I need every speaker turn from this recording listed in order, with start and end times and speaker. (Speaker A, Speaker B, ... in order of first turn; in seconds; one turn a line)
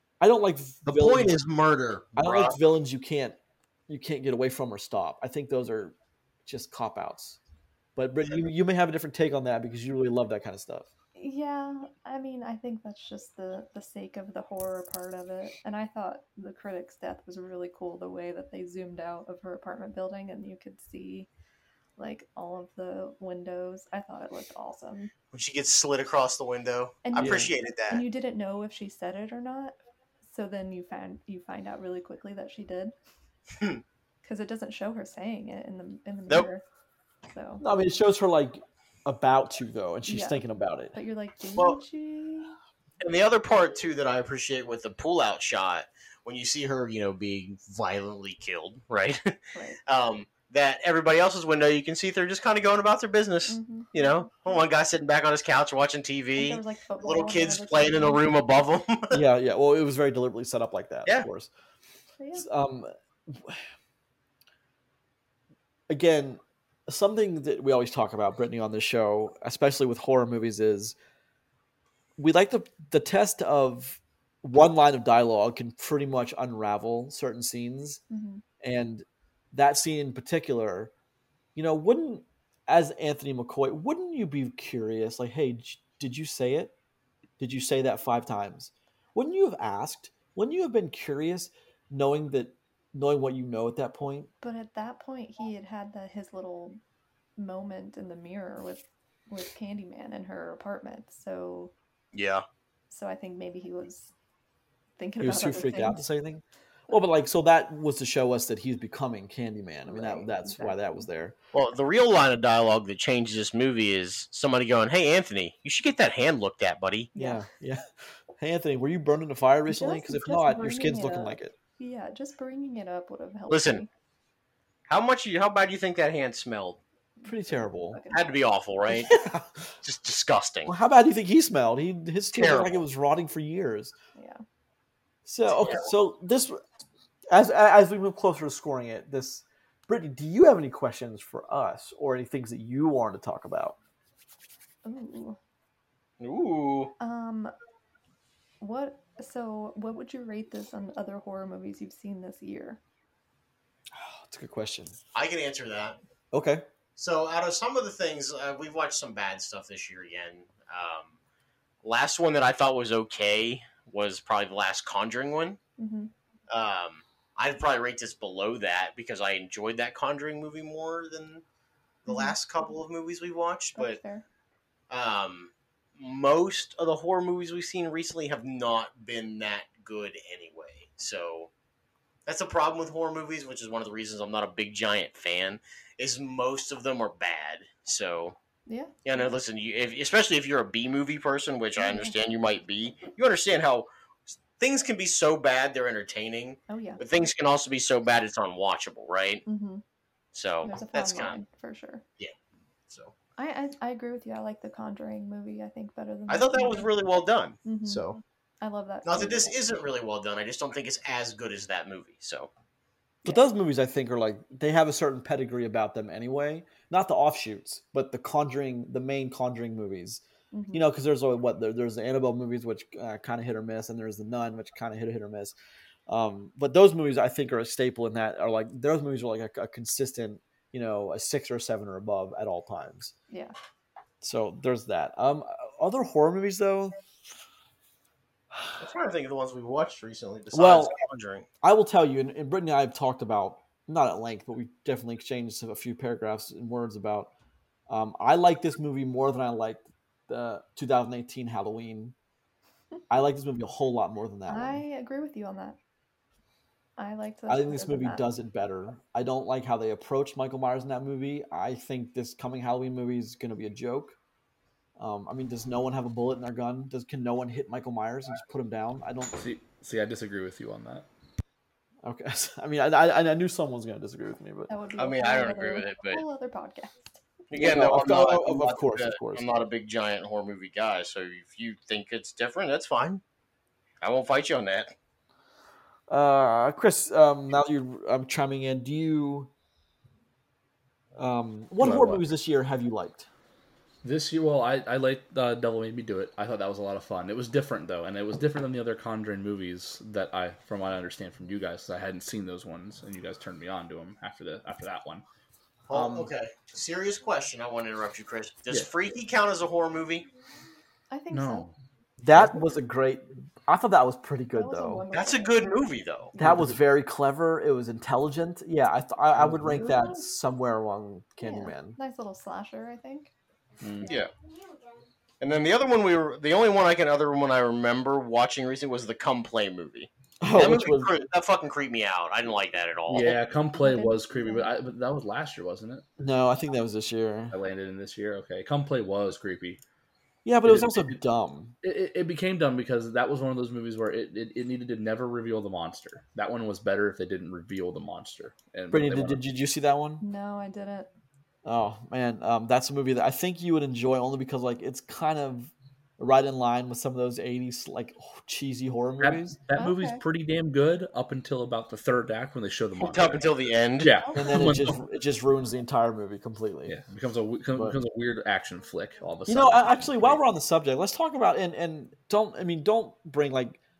Speaker A: 0.2-1.4
Speaker B: 0.8-2.5
Speaker A: 2.2-3.4
Speaker A: 3.9-7.4
Speaker A: 8.0-10.9
Speaker C: 11.2-21.3
Speaker C: 22.0-25.1
Speaker B: 25.3-28.0
Speaker C: 27.0-32.9
Speaker A: 27.1-27.5
Speaker C: 34.2-36.6
Speaker C: 37.3-37.6
Speaker A: 37.6-41.0
Speaker C: 40.1-42.5
Speaker B: 43.0-59.2
Speaker C: 49.5-49.8
Speaker C: 53.5-54.6
Speaker C: 56.4-58.2
Speaker A: 59.1-61.5
Speaker C: 62.2-62.5
Speaker A: 62.4-63.6
Speaker A: 65.9-70.9
Speaker A: 72.2-78.0
Speaker C: 78.1-78.4
Speaker A: 78.6-80.9
Speaker A: 81.5-86.7
Speaker A: 87.4-94.3
Speaker C: 94.4-96.8
Speaker C: 97.4-101.7
Speaker B: 102.1-102.4
Speaker C: 102.9-104.1
Speaker C: 105.0-106.0
Speaker A: 105.2-111.3
Speaker C: 109.8-111.0
Speaker B: 111.5-117.1
Speaker C: 117.1-117.5
Speaker A: 117.2-121.5
Speaker C: 119.7-123.9
Speaker B: 123.5-123.8
Speaker B: 124.9-126.8
Speaker C: 127.2-128.3
Speaker A: 127.2-128.0
Speaker B: 128.1-129.1
Speaker A: 128.9-129.7
Speaker B: 129.8-130.7
Speaker A: 130.7-133.9
Speaker B: 132.3-132.8
Speaker C: 134.1-134.4
Speaker A: 135.2-136.6
Speaker B: 135.5-135.9
Speaker A: 137.3-143.8
Speaker C: 144.8-145.4
Speaker B: 146.2-146.9
Speaker C: 147.0-147.5
Speaker C: 148.6-152.8
Speaker A: 153.9-155.0
Speaker B: 155.1-156.0
Speaker A: 156.3-156.6
Speaker B: 156.9-161.1
Speaker B: 161.8-165.6
Speaker C: 165.8-166.1
Speaker B: 166.5-171.4
Speaker B: 172.1-174.0
Speaker C: 172.1-172.4
Speaker C: 173.8-174.2
Speaker B: 174.9-181.5
Speaker B: 182.2-188.4
Speaker C: 188.7-189.3
Speaker B: 189.0-199.4
Speaker C: 191.8-192.1
Speaker C: 196.7-197.0
Speaker C: 199.4-199.8
Speaker B: 200.3-201.4
Speaker C: 200.6-202.0
Speaker B: 202.9-203.1
Speaker C: 203.4-206.9
Speaker B: 206.3-208.2
Speaker C: 207.6-209.5
Speaker B: 209.0-212.5
Speaker A: 213.2-225.5
Speaker C: 220.5-220.8
Speaker A: 226.1-233.1
Speaker C: 233.3-233.5
Speaker A: 234.2-237.0
Speaker B: 238.8-241.4
Speaker A: 240.5-240.9
Speaker A: 241.6-247.3
Speaker A: 247.9-252.1
Speaker A: 253.1-254.8
Speaker C: 254.5-255.8
Speaker C: 257.0-258.3
Speaker A: 257.5-264.2
Speaker A: 265.0-269.4
Speaker D: 269.4-271.1
Speaker A: 272.0-274.7
Speaker C: 274.7-277.2
Speaker B: 275.0-276.2
Speaker B: 277.5-283.2
Speaker A: 277.5-279.5
Speaker B: 284.0-284.9
Speaker A: 286.1-289.5
Speaker A: 291.1-293.3
Speaker D: 291.8-292.2
Speaker D: 294.0-305.2
Speaker A: 305.9-306.3
Speaker B: 305.9-310.3
Speaker C: 311.1-311.7
Speaker D: 311.3-311.7
Speaker A: 312.2-315.0
Speaker C: 314.5-315.6
Speaker B: 315.1-316.3
Speaker C: 316.3-316.6
Speaker A: 316.4-322.0
Speaker D: 316.4-316.8
Speaker D: 319.4-319.9
Speaker C: 319.8-320.1
Speaker C: 321.4-323.3
Speaker D: 323.8-324.2
Speaker B: 324.0-324.3
Speaker B: 325.4-333.4
Speaker A: 330.4-331.1
Speaker D: 333.1-336.0
Speaker C: 333.7-334.7
Speaker A: 336.2-337.6
Speaker D: 337.5-339.8
Speaker A: 340.4-341.7
Speaker D: 340.6-341.2
Speaker D: 341.8-349.4
Speaker A: 348.9-350.2
Speaker C: 350.2-351.1
Speaker A: 351.6-359.6
Speaker D: 359.2-365.0
Speaker C: 359.8-360.2
Speaker B: 363.0-364.1
Speaker C: 364.2-364.6
Speaker A: 364.3-367.0
Speaker D: 366.8-370.4
Speaker A: 369.5-373.8